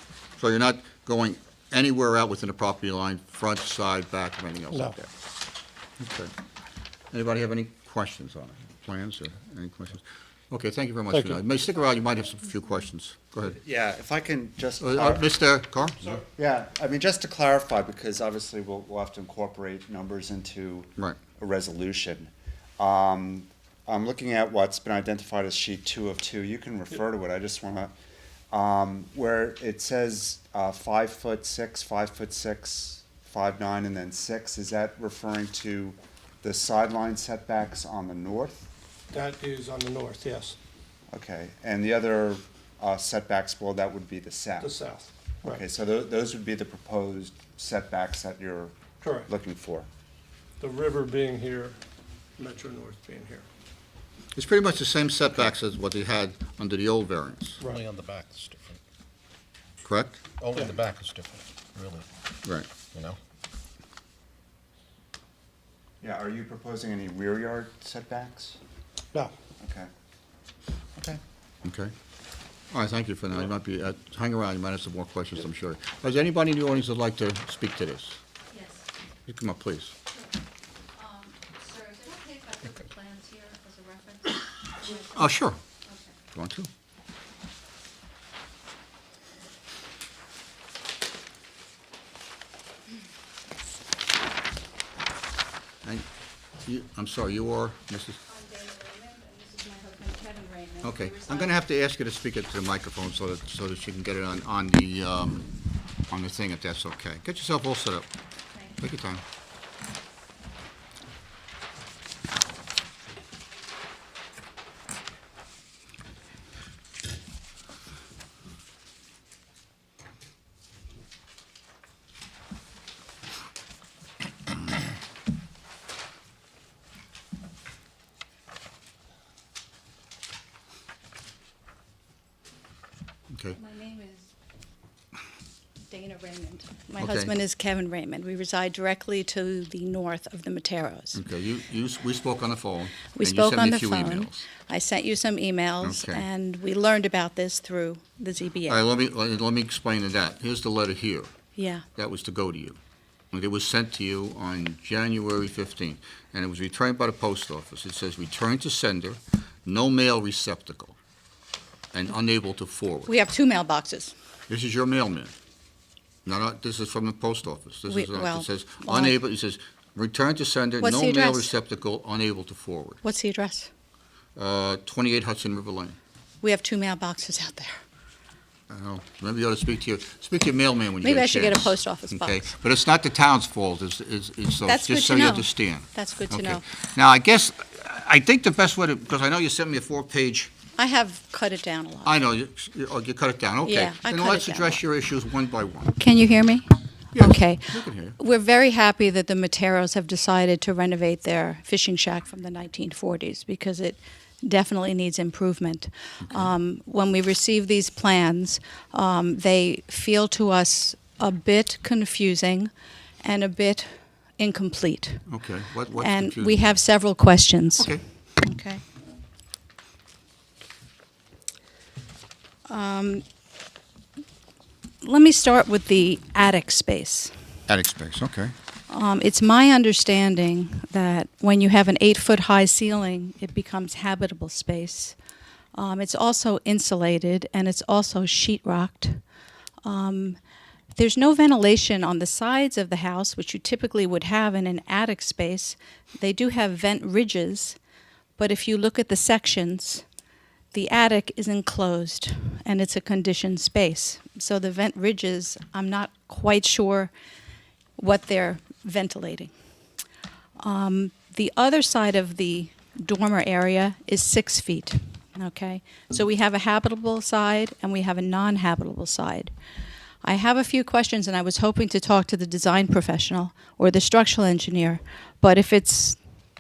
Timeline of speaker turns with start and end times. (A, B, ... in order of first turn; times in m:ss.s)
0:00.4-0:05.1 A
0:06.0-0:06.3 A
0:07.1-0:13.6 A
0:11.1-0:11.4 B
0:13.5-0:15.3 C
0:14.8-0:16.2 A
0:16.3-0:27.9 C
0:28.5-0:38.7 C
0:39.1-0:40.6 B
0:41.1-0:44.7 C
0:44.6-0:45.6 B
0:45.5-0:48.7 C
0:49.0-0:49.3 B
0:49.3-0:49.9 C
0:50.6-0:51.8 B
0:52.4-0:53.5 B
0:54.4-0:57.6 A
0:57.6-0:57.9 B
0:57.6-0:58.8 D
0:59.8-1:00.4 A
1:00.4-1:02.1 D
1:02.4-1:02.7 A
1:02.9-1:03.2 D
1:06.0-1:08.6 C
1:09.6-1:09.9 C
1:11.6-1:11.9 A
1:12.7-1:18.2 A
1:18.5-1:18.9 E
1:19.3-1:19.9 A
1:21.0-1:26.2 E
1:24.9-1:25.6 A
1:26.3-1:26.7 A
1:36.6-1:38.2 A
1:38.2-1:41.6 E
1:40.8-1:45.5 A
1:46.1-1:48.1 A
1:48.8-1:49.2 A
2:13.3-2:13.6 A
2:13.6-2:14.3 E
2:15.9-2:21.2 E
2:17.0-2:17.3 A
2:21.1-2:24.5 A
2:23.2-2:28.8 E
2:25.8-2:26.2 A
2:28.7-2:31.3 A
2:31.6-2:31.8 E
2:32.0-2:32.8 A
2:33.3-2:41.0 A
2:41.9-2:43.1 A
2:43.1-2:44.1 E
2:44.5-2:45.3 A
2:46.2-2:53.0 A
2:47.9-2:49.2 E
2:50.8-2:51.5 E
2:53.0-2:53.7 E
2:54.4-2:56.0 A
2:56.4-2:57.8 E
2:58.7-3:10.5 A
3:01.0-3:02.5 E
3:04.7-3:06.6 E
3:10.8-3:12.2 E
3:12.0-3:16.0 A
3:13.6-3:14.8 E
3:16.0-3:35.2 E
3:17.1-3:18.2 A
3:26.2-3:26.5 A
3:35.3-3:36.7 A
3:36.0-3:38.8 E
3:42.7-3:43.2 E
3:45.0-3:47.3 E
3:47.7-3:48.5 A
3:48.9-3:55.2 E
3:55.8-3:59.2 E
3:59.8-4:00.4 E
4:01.0-4:07.8 E
4:08.4-4:10.0 E
4:10.7-4:17.1 E
4:18.0-4:19.5 E
4:20.6-4:29.5 E
4:30.2-4:36.2 E